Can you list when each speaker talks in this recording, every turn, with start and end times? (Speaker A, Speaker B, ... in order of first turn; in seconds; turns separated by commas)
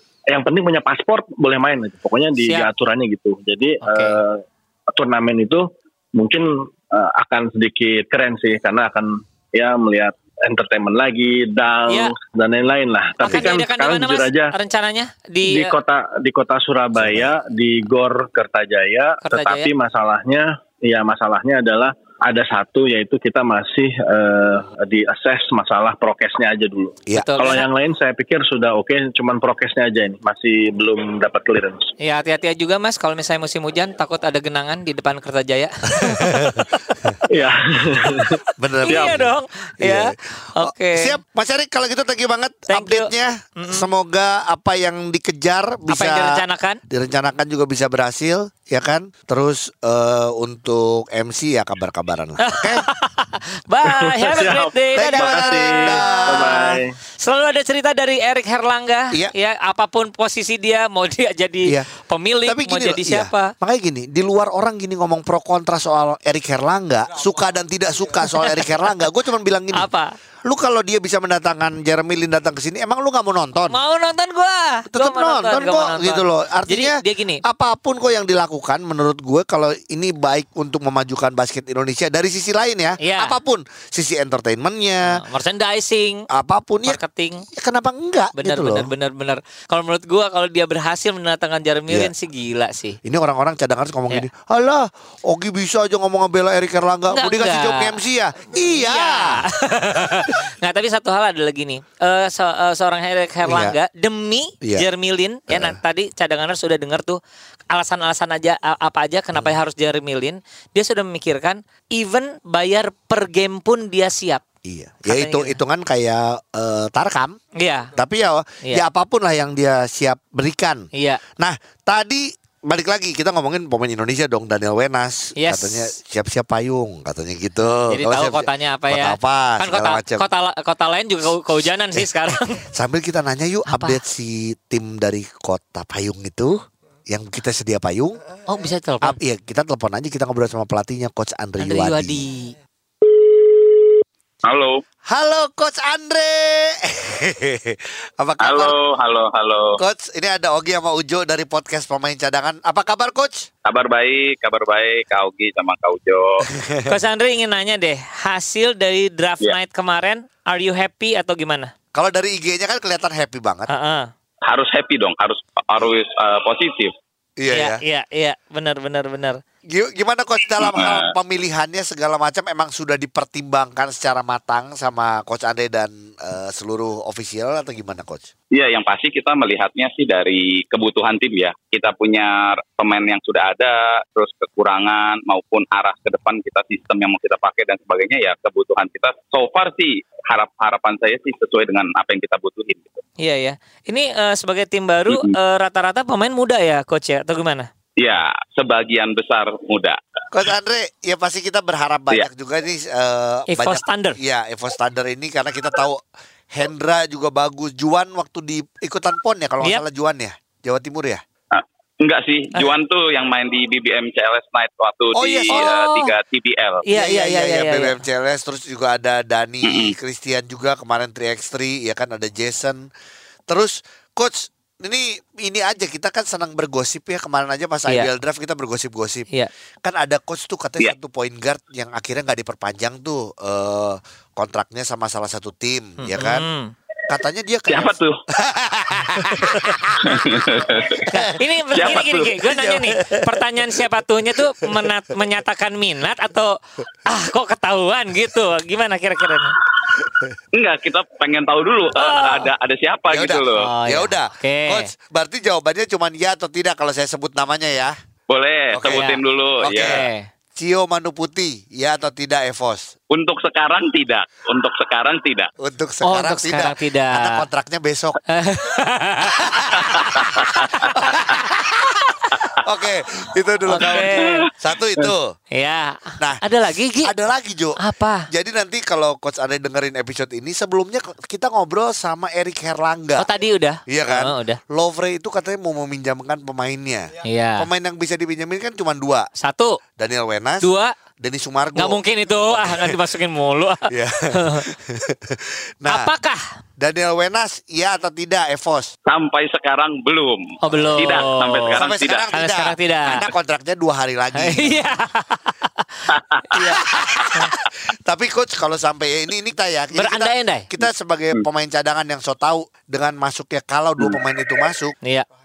Speaker A: 0.3-14.5, Speaker B: 3.8-4.2, Speaker B: 11.9-12.1, Speaker B: 13.2-15.8, Speaker A: 15.4-31.9, Speaker C: 17.0-17.3, Speaker B: 19.2-19.7, Speaker C: 27.1-27.5, Speaker B: 27.2-27.7, Speaker B: 32.0-36.9, Speaker C: 36.0-37.2, Speaker A: 37.3-39.2, Speaker C: 38.6-52.9, Speaker B: 38.8-41.2, Speaker B: 42.7-43.9, Speaker B: 45.9-46.8, Speaker B: 52.4-63.5, Speaker A: 53.9-56.9, Speaker C: 55.0-56.6, Speaker C: 62.5-69.9, Speaker B: 69.8-70.1, Speaker C: 70.5-73.8, Speaker B: 73.7-77.4, Speaker C: 74.9-85.2, Speaker B: 83.0-83.4, Speaker B: 85.1-86.3, Speaker C: 86.3-87.0, Speaker B: 86.9-87.5, Speaker C: 87.6-88.9, Speaker B: 88.4-93.0, Speaker C: 93.0-99.5, Speaker B: 97.1-98.0, Speaker B: 98.7-107.2, Speaker C: 103.5-103.8, Speaker C: 105.5-105.8, Speaker B: 107.7-114.4, Speaker C: 114.7-117.4, Speaker B: 115.1-115.6, Speaker B: 117.5-117.9, Speaker C: 118.0-120.9, Speaker B: 121.0-121.2, Speaker C: 121.4-130.3, Speaker B: 125.4-125.9, Speaker B: 127.7-132.7, Speaker C: 132.7-138.2, Speaker B: 133.7-134.0, Speaker B: 138.5-139.2, Speaker C: 139.0-142.2, Speaker B: 141.6-142.6, Speaker D: 144.4-144.8, Speaker C: 145.1-148.8, Speaker D: 148.4-149.8, Speaker C: 149.8-153.5, Speaker D: 153.7-156.4, Speaker C: 156.5-156.9, Speaker B: 156.9-161.7, Speaker C: 161.9-163.7, Speaker B: 163.7-164.1, Speaker D: 164.5-166.9, Speaker C: 167.4-167.8, Speaker B: 167.5-169.4, Speaker C: 169.7-178.3, Speaker D: 170.6-171.1, Speaker D: 178.5-193.0, Speaker B: 193.2-197.7, Speaker D: 195.1-195.3, Speaker D: 198.0-200.0, Speaker C: 200.3-206.0, Speaker B: 203.5-204.2, Speaker C: 206.5-211.2, Speaker D: 211.5-216.9, Speaker C: 215.2-215.7, Speaker B: 215.5-216.1, Speaker B: 216.9-218.0, Speaker C: 216.9-222.9, Speaker D: 219.6-219.9, Speaker C: 223.5-229.3, Speaker C: 229.8-236.5, Speaker B: 236.0-236.7, Speaker C: 237.1-240.4, Speaker D: 237.7-238.2, Speaker D: 240.1-241.1, Speaker C: 241.1-243.8, Speaker B: 241.2-249.6, Speaker D: 241.7-242.4, Speaker C: 244.4-244.7, Speaker C: 250.1-250.3, Speaker D: 250.5-253.7, Speaker B: 251.9-252.5, Speaker C: 253.1-258.0, Speaker B: 253.6-254.9, Speaker D: 258.3-260.1, Speaker C: 258.7-262.9, Speaker B: 259.8-260.3, Speaker D: 263.1-265.5, Speaker C: 265.6-268.2, Speaker B: 266.0-267.4, Speaker B: 268.3-269.5, Speaker C: 269.2-275.4, Speaker B: 273.7-274.5, Speaker D: 274.2-274.5, Speaker B: 275.5-277.1, Speaker C: 277.0-283.3, Speaker B: 277.8-278.3, Speaker B: 283.2-284.6, Speaker C: 283.9-289.3, Speaker B: 287.2-287.7, Speaker B: 289.4-289.8, Speaker C: 290.0-290.7, Speaker B: 290.6-290.9, Speaker C: 291.2-293.0, Speaker B: 291.8-294.6, Speaker C: 293.9-296.1, Speaker B: 295.9-296.4, Speaker C: 296.8-298.9, Speaker D: 299.1-302.3, Speaker B: 300.6-301.8, Speaker C: 300.7-301.2, Speaker C: 301.8-304.9, Speaker B: 302.3-303.2, Speaker B: 304.4-306.8, Speaker D: 306.1-306.4, Speaker C: 306.5-314.9, Speaker B: 309.9-310.7